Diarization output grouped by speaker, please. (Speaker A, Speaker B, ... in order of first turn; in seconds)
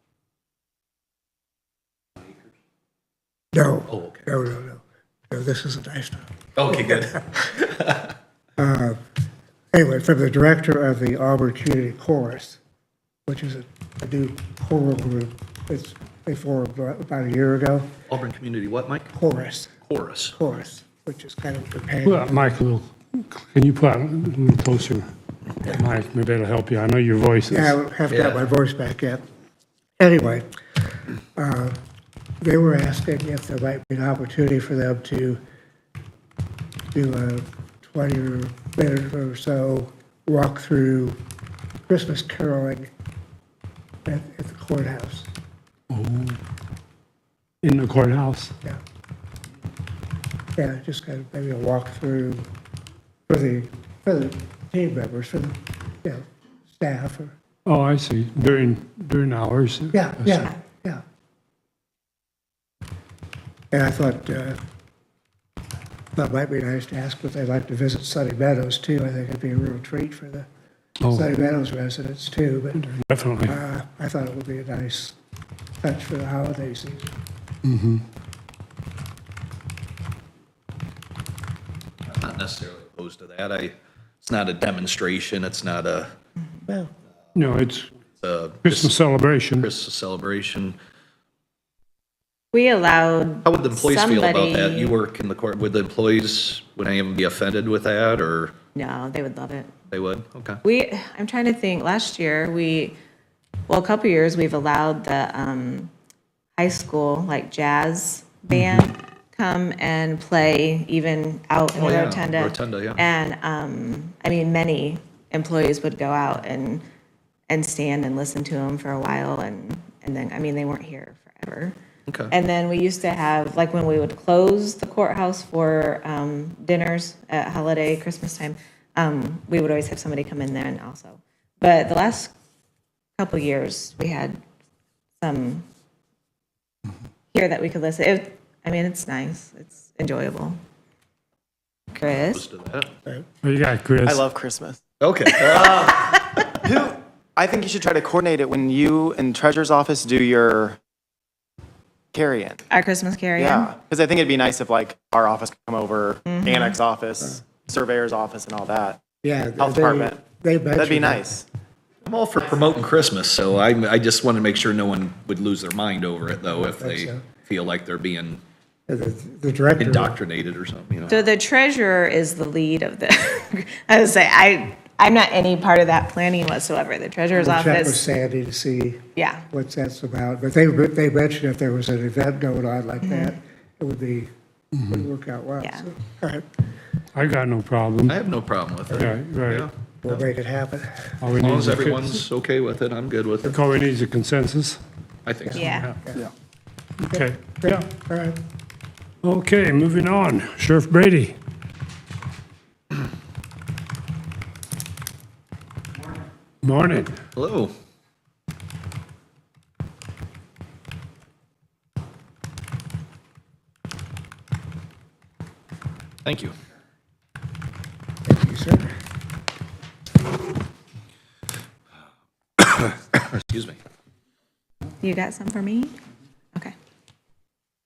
Speaker A: 3.5-6.4, 8.6-9.0, 9.7-12.6, 13.3-17.9, 19.1-19.7, 20.3-22.6, 27.5-29.2, 30.0-30.5, 31.4-31.8, 32.4-35.4, 36.9-41.2, 41.9-42.9, 44.1-45.3, 50.6-52.5, 53.3-57.4, 59.9-61.0, 63.7-64.6, 66.2-70.5, 71.1-72.9, 73.5-75.2, 75.8-77.1, 159.2-161.3, 166.6-167.3, 168.9-170.2, 177.3-184.3, 184.9-186.5, 190.0-191.2, 195.6-196.3, 197.1-198.4, 218.3-218.9
Speaker B: 3.9-4.4, 6.6-8.1, 18.1-19.1, 19.9-20.4, 28.1-28.4, 82.1-86.1, 88.2-89.0, 89.6-90.8, 93.5-98.5, 99.9-100.6, 111.8-113.0, 122.1-122.3, 142.3-143.0, 145.0-146.3, 162.1-168.4, 169.8-171.2, 188.1-190.2, 191.4-193.6, 195.3-195.7, 207.4-207.7, 216.2-216.5, 222.6-223.8
Speaker C: 22.1-25.1, 25.6-27.8, 45.9-46.4, 47.6-48.5, 57.7-60.5, 71.0-71.3, 72.9-73.6, 77.7-78.0, 87.3-87.9, 88.6-89.7, 143.4-144.2, 184.8-185.1, 187.2-188.1, 188.9-189.7, 191.2-192.1, 193.5-194.8, 195.7-195.9, 197.1-197.8, 199.2-201.4, 206.6-207.2
Speaker D: 92.5-94.9, 98.8-99.7, 100.6-103.0, 103.7-105.9, 106.6-116.8, 117.5-121.8, 122.3-132.3, 133.2-134.4, 135.2-135.7, 137.3-140.6, 141.9-142.4, 152.7-153.7, 156.3-156.8, 171.1-178.0, 179.2-179.5, 183.0-183.3, 185.6-185.9, 195.5-195.9, 225.0-225.9
Speaker E: 144.0-144.8, 146.6-150.8, 152.1-152.6, 153.4-159.0, 159.6-160.2, 160.8-161.4